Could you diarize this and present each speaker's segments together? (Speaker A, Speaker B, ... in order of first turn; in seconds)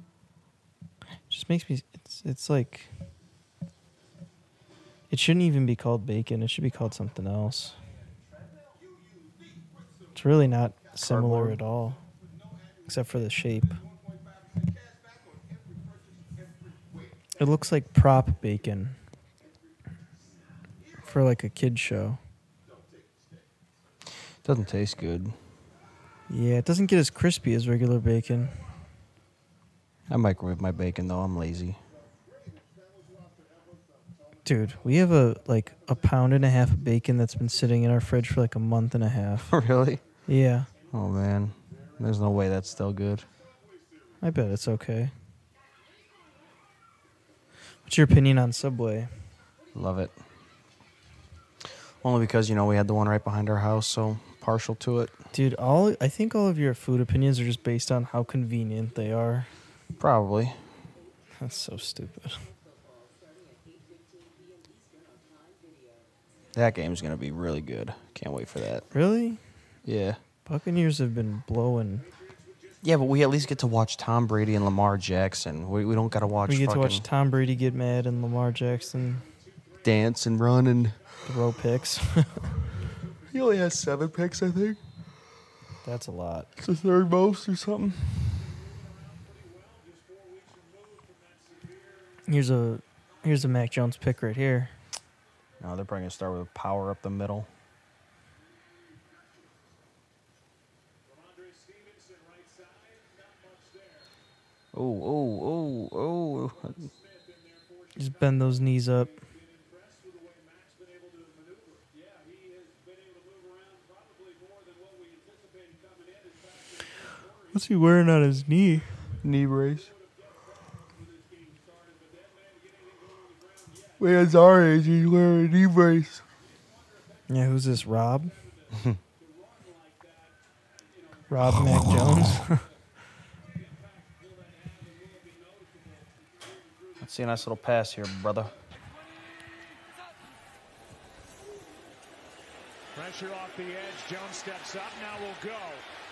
Speaker A: 1.3-2.9, 5.1-7.8, 10.2-12.0, 12.9-13.8, 17.4-19.0, 21.0-22.2, 26.3-28.6, 34.5-39.5, 40.3-40.7, 44.2-45.1, 47.9-49.1, 55.3-59.5, 61.4-62.4, 68.9-69.4, 70.5-72.1, 76.5-79.3, 81.3-82.5, 85.8-86.5, 92.3-94.8, 108.0-109.2, 117.5-119.1, 127.3-128.3, 131.3-132.6
Speaker B: 11.0-11.6, 24.4-25.4, 30.1-31.8, 39.5-40.0, 40.9-43.3, 49.8-50.1, 52.0-55.2, 60.0-60.6, 66.5-68.9, 69.8-70.2, 72.8-77.0, 79.8-81.0, 83.3-84.8, 86.6-88.6, 95.6-97.5, 104.7-106.9, 119.2-119.9, 124.0-126.2, 128.7-129.0, 131.4-132.4, 137.0-138.5
Speaker C: 142.9-145.8